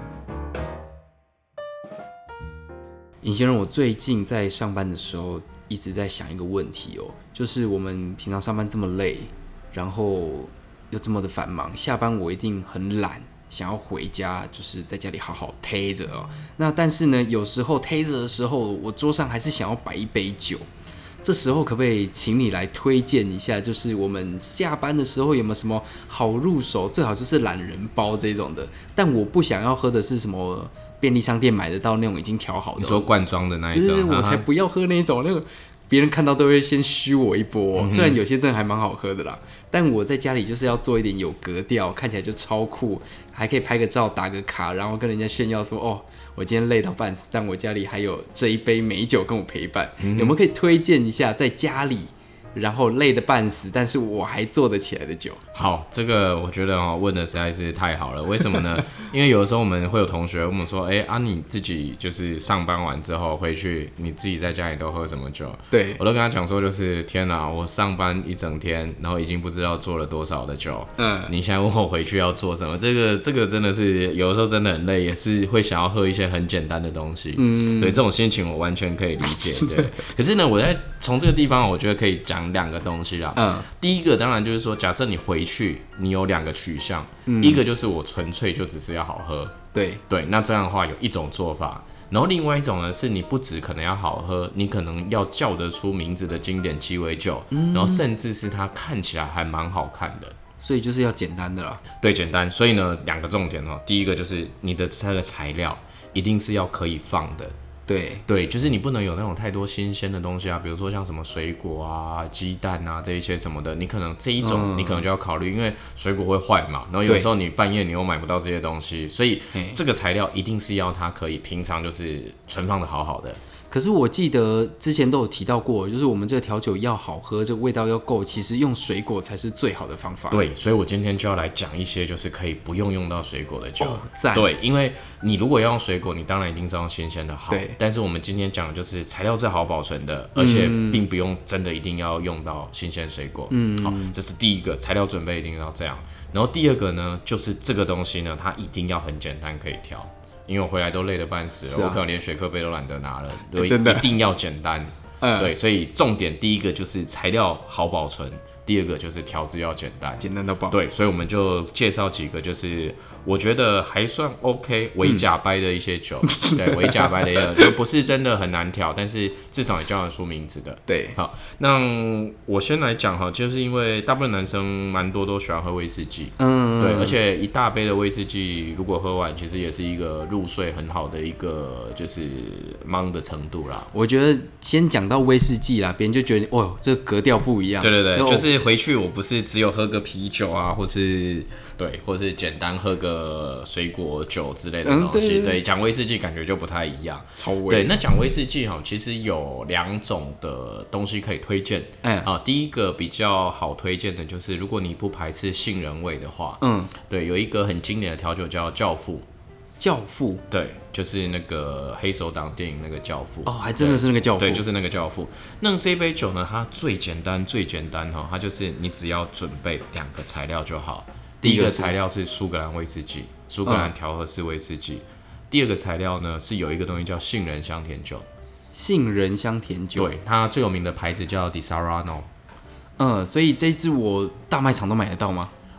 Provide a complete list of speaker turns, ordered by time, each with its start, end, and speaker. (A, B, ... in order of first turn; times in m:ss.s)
0:03.2-0:20.6 A
0:21.2-0:33.1 A
0:32.8-0:34.5 B
0:33.7-0:55.4 A
0:37.7-0:38.2 B
0:50.0-0:50.4 B
0:55.5-1:29.6 B
1:05.7-1:06.0 A
1:11.0-1:11.3 A
1:17.4-1:18.0 A
1:23.4-1:23.7 A
1:27.3-1:27.6 A
1:29.7-1:30.0 A
1:30.1-1:40.4 B
1:37.5-1:38.0 A
1:40.6-1:41.8 A
1:42.0-1:47.5 B
1:47.9-1:48.2 A
1:48.3-2:03.4 B
1:54.4-1:55.0 A
2:03.7-2:10.4 A
2:10.3-3:03.9 B
2:13.8-2:14.5 A
2:17.5-2:17.8 A
2:20.4-2:21.0 A
2:23.5-2:24.2 A
2:31.7-2:32.0 A
2:33.5-2:34.1 A
2:35.2-2:35.5 A
2:40.2-2:40.8 A
2:46.3-2:47.2 A
2:50.9-2:51.2 A
2:56.4-2:57.2 A
3:03.9-3:08.5 A
3:07.8-3:29.2 B
3:14.8-3:15.6 A
3:17.4-3:18.0 A
3:22.0-3:22.3 A
3:26.6-3:26.9 A
3:29.8-3:30.4 A
3:30.5-3:48.2 B
3:33.4-3:34.6 A
3:41.4-3:41.9 A
3:43.6-3:43.9 A
3:48.7-3:50.1 A
3:50.0-3:52.3 B
3:53.0-3:55.5 A